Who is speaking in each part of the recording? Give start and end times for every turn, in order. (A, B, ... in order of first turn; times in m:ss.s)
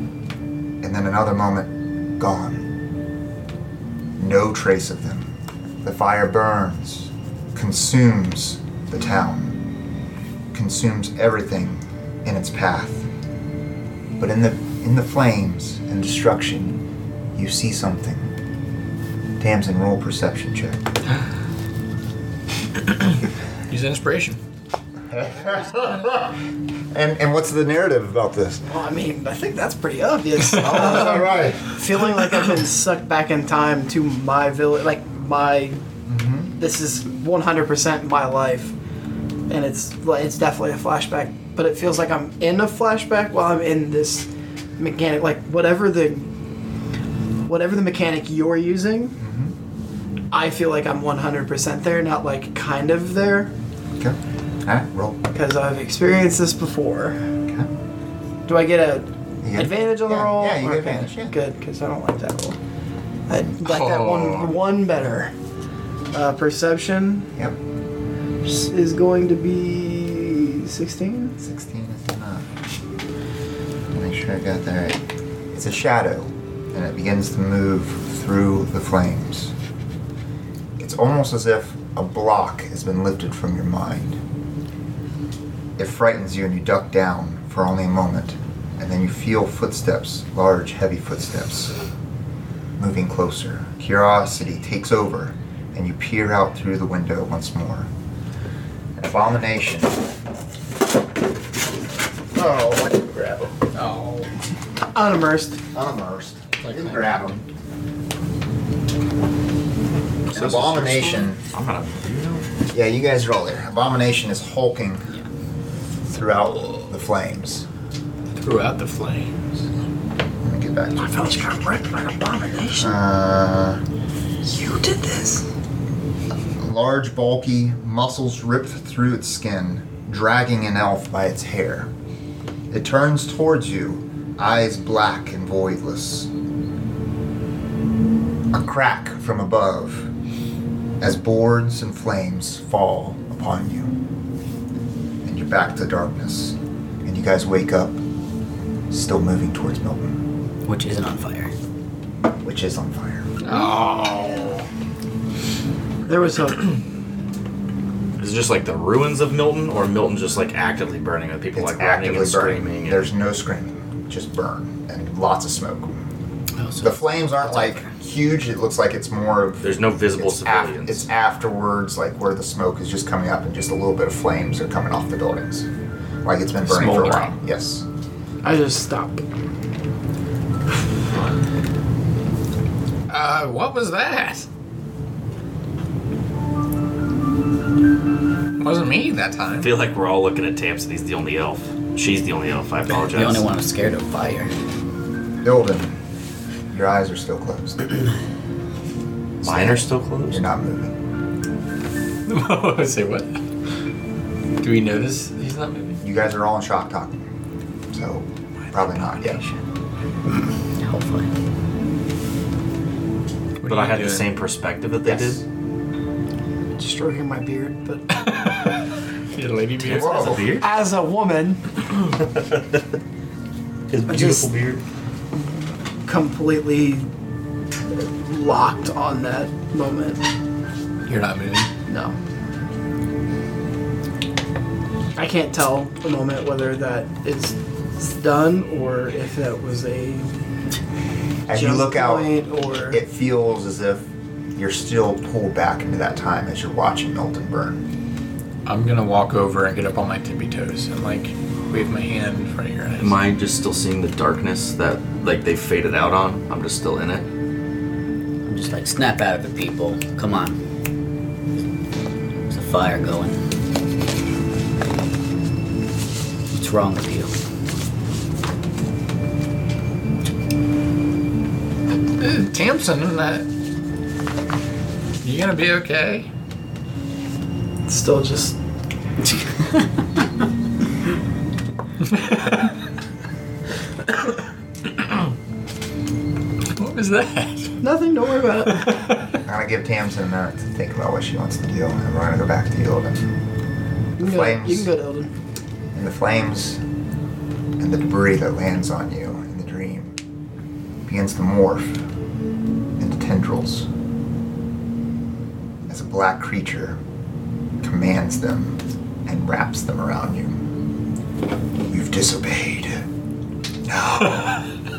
0:00.8-0:02.7 A
0:04.2-0:09.6 A
0:10.5-0:13.1 A
0:14.2-0:16.8 A
0:17.4-0:18.3 A
0:19.4-0:20.8 A
0:23.7-0:24.4 B
0:25.1-0:26.4 A
0:26.9-0:28.6 A
0:28.7-0:35.8 C
0:30.5-0:31.7 A
0:36.1-0:36.5 A
0:36.6-0:38.8 C
0:39.5-0:46.3 C
0:47.5-0:49.2 C
0:49.2-0:49.5 A
0:50.3-0:53.5 C
0:54.0-0:55.2 A
0:55.3-0:57.3 C
0:58.5-1:02.6 C
0:59.4-1:01.4 A
1:03.3-1:05.3 C
1:03.6-1:04.6 B
1:06.1-1:07.3 C
1:08.4-1:11.4 C
1:11.4-1:12.5 A
1:13.9-1:15.0 A
1:15.5-1:19.6 A
1:20.8-1:24.2 A
1:25.8-1:31.8 A
1:32.8-1:37.9 A
1:39.0-1:40.0 A
1:42.3-1:43.6 A
1:43.7-1:44.3 B
1:44.9-1:45.6 C
1:45.7-1:47.4 A
1:46.6-1:47.4 B
1:50.3-1:52.5 D
1:50.3-1:51.4 A
1:52.7-1:55.1 A
1:56.1-1:57.7 A
1:58.4-1:59.5 B
2:00.4-2:01.6 A
2:01.0-2:03.0 C
2:02.8-2:03.8 A
2:04.4-2:05.4 C
2:06.6-2:11.9 A
2:12.7-2:16.3 A
2:18.5-2:20.1 A
2:21.0-2:23.9 A
2:25.2-2:28.0 A
2:28.9-2:30.2 A
2:30.6-2:31.5 E
2:32.4-2:33.4 A
2:33.4-2:34.6 B
2:33.5-2:34.3 C
2:36.1-2:36.7 C
2:38.2-2:43.0 D
2:41.5-2:46.0 A
2:46.6-2:47.9 E
2:46.8-2:55.7 A
2:49.6-2:51.1 D
2:56.2-2:57.9 A
2:56.8-2:57.3 B
2:58.4-2:59.2 C
3:03.1-3:04.5 B
3:08.6-3:09.7 B
3:09.6-3:13.5 D
3:13.1-3:14.5 E
3:15.4-3:16.0 A
3:16.7-3:18.0 A
3:19.4-3:21.0 A
3:19.4-3:20.4 D
3:22.3-3:23.4 B
3:24.6-3:26.0 B
3:26.0-3:27.2 A
3:27.9-3:29.5 A
3:28.7-3:29.4 D
3:30.8-3:31.3 E
3:33.6-3:34.3 B
3:33.6-3:35.4 D
3:35.0-3:35.4 A
3:36.8-3:38.4 C
3:38.2-3:38.8 B
3:39.3-3:40.6 B
3:39.8-3:40.7 D
3:39.9-3:40.5 A
3:40.5-3:41.6 C
3:42.2-3:42.8 D
3:43.9-3:44.8 D
3:44.1-3:44.5 C
3:45.4-3:47.1 C
3:48.0-3:50.2 C
3:51.1-3:51.7 B
3:51.9-3:52.2 C
3:55.2-4:00.3 C
4:01.5-4:02.3 A
4:01.5-4:03.0 C
4:02.9-4:07.8 A
4:08.7-4:13.1 B
4:13.0-4:17.3 D
4:18.4-4:20.6 E
4:22.5-4:23.4 E
4:26.5-4:27.3 E
4:32.2-4:33.5 B
4:35.2-4:36.3 B
4:37.9-4:38.6 C
4:42.1-4:42.7 B
4:44.9-4:45.2 B
4:46.8-4:47.8 B
4:47.8-4:49.1 C
4:48.8-4:49.2 B
4:49.4-4:53.3 A
4:54.2-4:55.3 C
4:54.2-4:54.9 A
4:55.9-4:56.8 A
4:57.8-5:00.2 A
5:01.1-5:02.0 A
5:03.0-5:03.9 A
5:05.9-5:07.0 A
5:07.8-5:10.6 A
5:11.9-5:13.1 A
5:13.8-5:14.7 A